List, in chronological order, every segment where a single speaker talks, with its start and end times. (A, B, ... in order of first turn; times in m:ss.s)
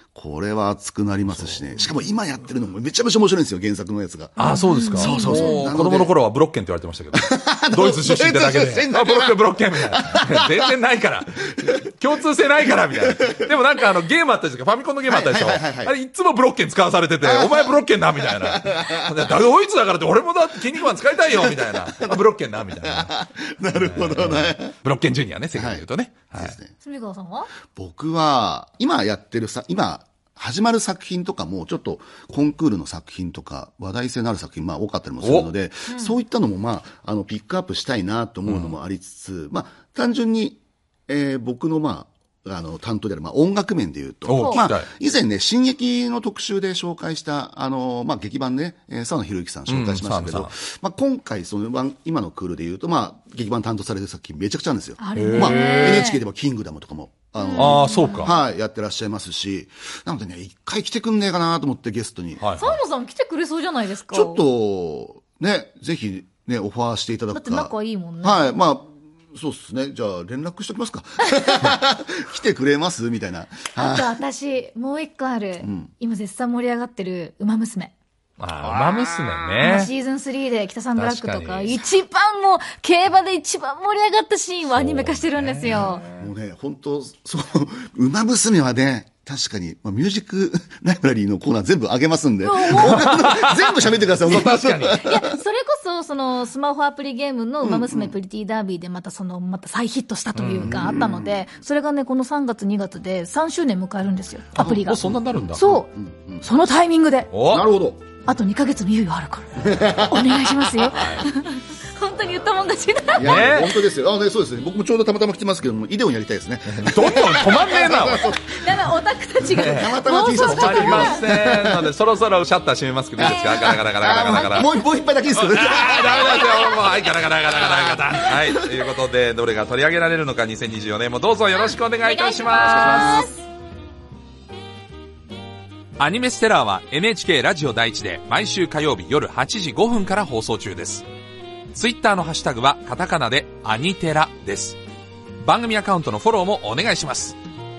0:00.1-0:06.1 A
0:01.3-0:01.9 B
0:04.4-0:26.6 B
0:04.4-0:05.6 C
0:07.1-0:10.7 A
0:13.0-0:13.5 A
0:15.1-0:15.9 A
0:17.2-0:19.4 A
0:20.7-0:22.2 A
0:22.7-0:24.7 A
0:25.5-0:26.7 A
0:26.8-0:27.5 C
0:27.7-1:02.5 A
0:35.2-0:35.5 B
0:35.9-0:36.2 C
0:38.4-0:38.8 B
0:44.2-0:44.9 B
0:44.4-0:44.7 C
0:49.7-0:50.5 B
0:55.0-0:56.2 C
0:55.2-0:56.1 B
0:57.4-0:58.2 C
0:57.6-0:58.4 B
1:02.4-1:02.8 B
1:02.6-1:04.4 C
1:04.1-1:14.2 A
1:07.3-1:08.5 C
1:13.7-1:17.9 C
1:15.6-1:15.9 A
1:18.4-1:19.9 B
1:18.6-1:19.5 A
1:19.6-1:26.0 C
1:21.0-1:21.8 B
1:24.7-1:26.3 B
1:26.2-1:35.4 A
1:32.4-1:33.0 C
1:32.7-1:35.0 B
1:35.0-1:45.0 C
1:37.6-1:38.1 A
1:40.3-1:41.0 B
1:40.6-1:41.4 A
1:44.6-1:45.6 B
1:44.6-1:46.4 A
1:45.5-1:47.3 C
1:47.3-1:47.7 B
1:47.4-1:48.0 A
1:48.2-1:53.5 C
1:49.6-1:50.7 A
1:50.9-1:51.2 B
1:53.1-1:58.6 A
1:53.2-1:53.8 B
1:56.6-1:58.3 B
1:58.0-2:01.4 C
1:59.4-2:04.7 B
1:59.6-2:01.9 A
2:03.2-2:08.6 A
2:03.2-2:04.7 C
2:05.3-2:13.3 B
2:12.0-2:13.4 C
2:12.5-2:13.3 A
2:16.0-2:21.0 B
2:21.7-2:24.8 B
2:25.4-2:27.4 B